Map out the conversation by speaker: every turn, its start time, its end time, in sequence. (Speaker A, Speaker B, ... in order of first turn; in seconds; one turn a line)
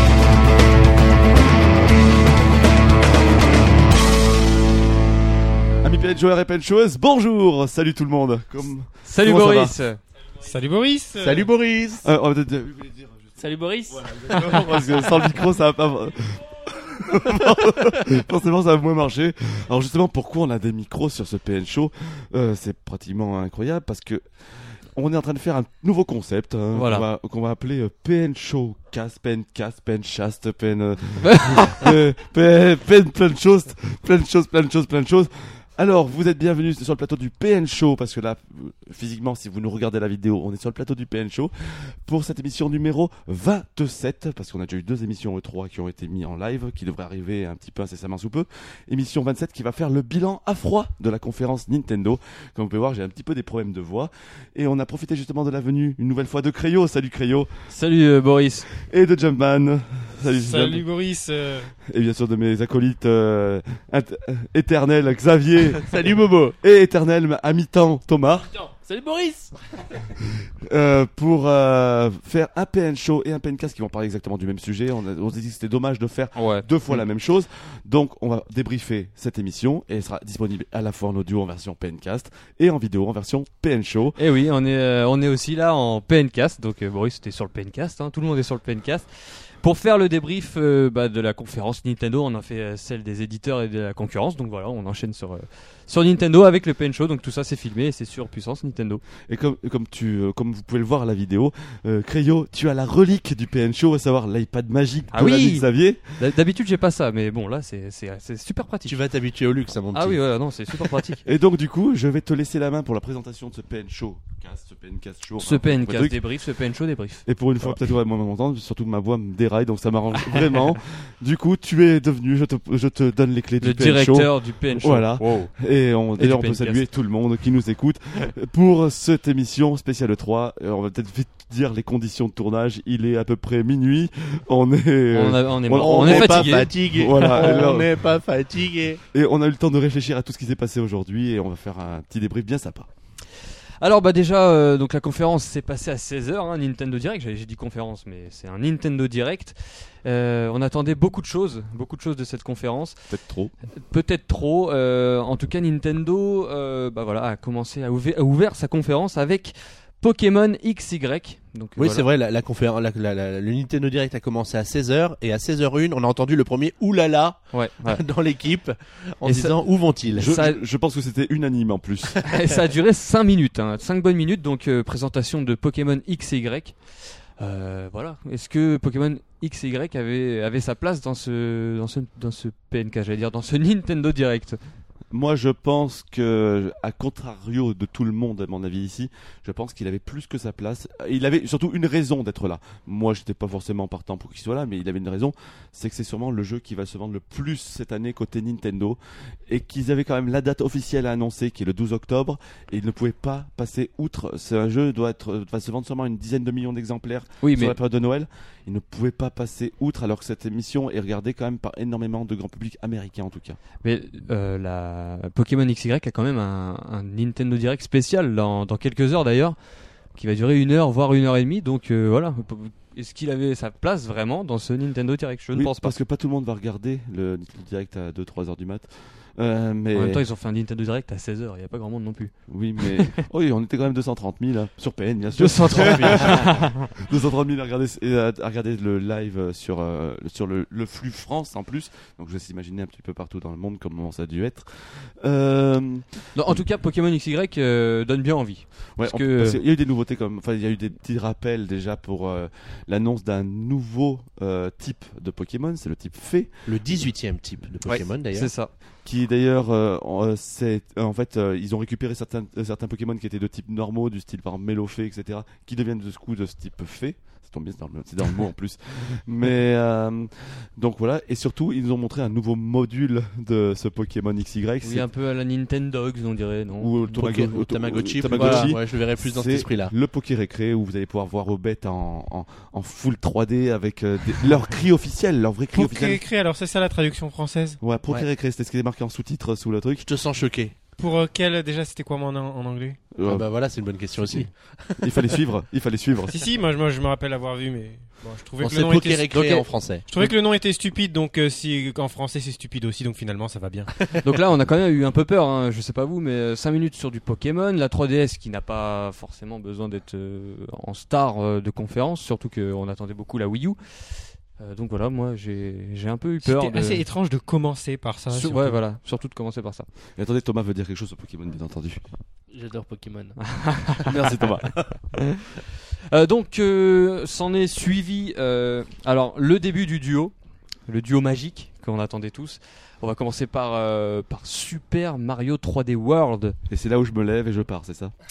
Speaker A: 5.8-9.8
Speaker B: 9.0-10.0
Speaker C: 10.4-11.5
Speaker D: 11.2-12.1
Speaker A: 12.0-13.4
Speaker E: 13.4-15.1
Speaker A: 13.9-57.5
Speaker B: 26.7-27.1
Speaker B: 31.2-31.9
Speaker B: 57.7-58.7
Speaker A: 58.7-60.8
Speaker C: 60.3-61.7
Speaker A: 61.9-68.5
Speaker D: 65.8-66.5
Speaker E: 68.5-70.0
Speaker A: 70.6-84.2
Speaker B: 76.3-77.0
Speaker B: 84.2-99.0
Speaker A: 99.2-106.2
Speaker B: 105.1-109.0
Speaker D: 108.8-110.2
Speaker B: 109.9-111.2
Speaker A: 111.2-116.2
Speaker B: 115.4-117.8
Speaker A: 117.2-137.9
Speaker B: 123.6-125.5
Speaker B: 126.2-126.8
Speaker B: 135.1-137.4
Speaker D: 135.8-139.0
Speaker A: 139.1-142.9
Speaker B: 143.8-153.0
Speaker A: 153.1-153.5
Speaker B: 153.7-162.0
Speaker D: 161.8-170.4
Speaker B: 167.5-168.0
Speaker B: 169.2-169.5
Speaker A: 170.1-172.2
Speaker B: 170.2-170.6
Speaker B: 172.2-184.6
Speaker A: 185.1-213.6
Speaker B: 207.4-207.8
Speaker B: 213.8-219.6
Speaker B: 220.1-225.9
Speaker A: 225.5-230.2
Speaker B: 229.9-233.2
Speaker A: 232.5-246.6
Speaker B: 235.3-236.9
Speaker D: 235.7-236.5
Speaker B: 246.3-249.6
Speaker A: 249.0-256.9
Speaker D: 256.7-258.5
Speaker B: 257.9-258.7
Speaker A: 259.0-275.1
Speaker B: 274.8-277.3
Speaker A: 276.8-286.2
Speaker D: 277.1-279.9
Speaker B: 278.3-278.8
Speaker C: 285.7-287.8
Speaker A: 287.8-290.1
Speaker D: 290.0-290.7
Speaker C: 291.0-293.1
Speaker A: 293.1-293.5
Speaker D: 293.2-295.4
Speaker A: 295.0-296.5
Speaker C: 296.3-303.9
Speaker D: 298.6-300.1
Speaker B: 304.2-317.1
Speaker C: 316.4-318.8
Speaker B: 318.3-319.9
Speaker A: 320.1-322.0
Speaker E: 322.5-324.0
Speaker B: 323.4-324.1
Speaker A: 324.0-325.0
Speaker B: 325.2-330.3
Speaker B: 330.9-336.6
Speaker A: 336.7-338.1